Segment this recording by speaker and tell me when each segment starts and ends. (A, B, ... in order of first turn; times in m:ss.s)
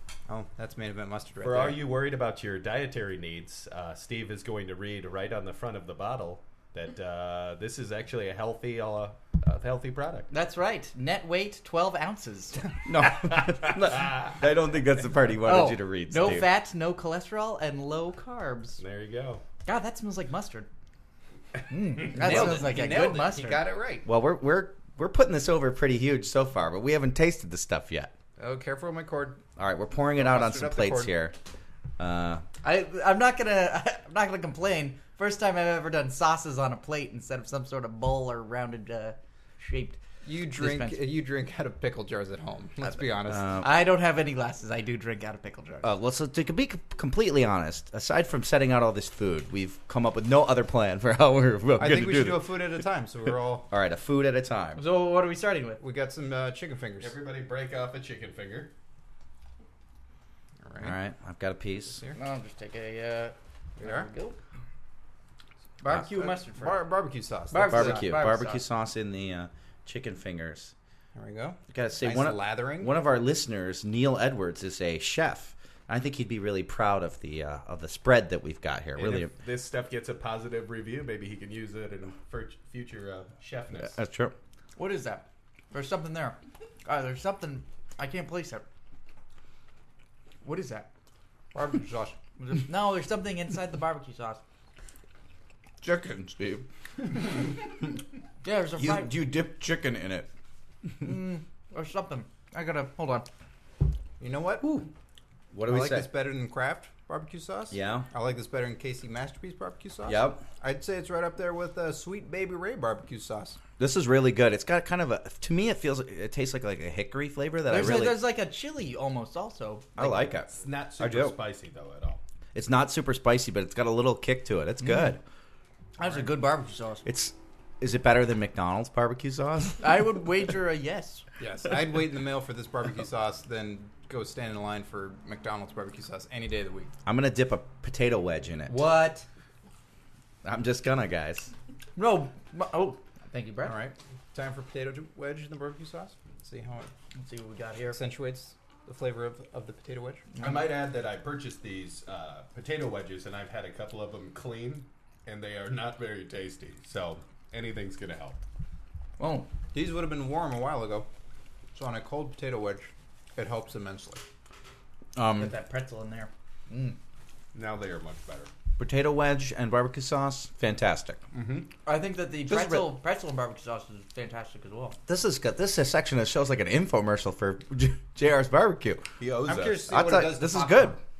0:00.3-0:01.8 A
0:01.4-0:10.3 B
0:10.3-0:12.7 C
0:12.8-0:16.5 D
0:15.4-0:18.8 C
0:16.2-0:16.4 B
0:18.8-0:19.4 B
0:19.6-0:20.7 C
0:21.7-0:23.6 C
0:22.0-0:24.1 A
0:22.2-0:22.7 D
0:24.0-0:28.1 D
0:28.4-0:29.4 A
0:29.6-0:31.3 D
0:30.2-0:31.1 A
0:32.0-0:32.4 D
0:32.6-0:41.0 C
0:40.2-0:43.6 A
0:43.3-0:43.6 D
0:43.6-0:45.9 C
0:45.8-0:52.5 D
0:51.8-0:53.7 A
0:53.7-0:54.8 D
0:54.8-0:55.8 C
0:55.8-0:57.1 A
0:57.0-0:58.7 B
1:00.6-1:00.9 A
1:00.8-1:02.0 D
1:02.2-1:04.4 C
1:03.8-1:04.1 A
1:05.8-1:06.8 C
1:05.9-1:08.0 A
1:07.5-1:08.6 C
1:07.6-1:10.7 D
1:11.1-1:12.9 A
1:11.7-1:19.3 D
1:19.0-1:24.0 B
1:23.8-1:24.3 D
1:24.8-1:28.6 C
1:30.4-1:30.9 C
1:31.5-1:32.2 A
1:32.4-1:34.4 C
1:35.8-1:36.6 D
1:38.4-1:39.1 C
1:38.8-1:40.3 D
1:41.0-1:43.3 C
1:44.2-1:44.8 A
1:44.6-1:44.8 D
1:45.5-1:46.1 D
1:45.6-1:53.6 A
1:47.7-1:48.1 D
1:50.0-1:50.4 D
1:53.8-1:58.2 D
1:57.6-2:00.3 C
2:00.0-2:01.4 D
2:00.5-2:02.2 B
2:02.5-2:05.2 D
2:04.8-2:05.1 C
2:06.0-2:07.0 C
2:07.0-2:09.9 D
2:09.8-2:11.2 C
2:11.4-2:16.9 A
2:17.0-2:18.8 D
2:18.7-2:19.2 C
2:20.4-2:21.5 D
2:22.0-2:23.8 C
2:23.6-2:26.9 A
2:27.1-2:28.0 C
2:27.9-2:30.3 A
2:30.4-2:38.4 B
2:39.2-2:39.5 C
2:39.7-2:41.1 A
2:41.7-2:44.2 A
2:45.2-2:45.5 D
2:45.3-2:47.0 C
2:47.5-2:48.5 B
2:48.8-2:51.2 D
2:51.3-2:51.7 B
2:51.8-2:55.0 C
2:52.5-2:52.9 D
2:55.1-2:59.0 D
2:59.2-2:59.9 B
2:59.4-3:01.0 A
2:59.9-3:01.0 D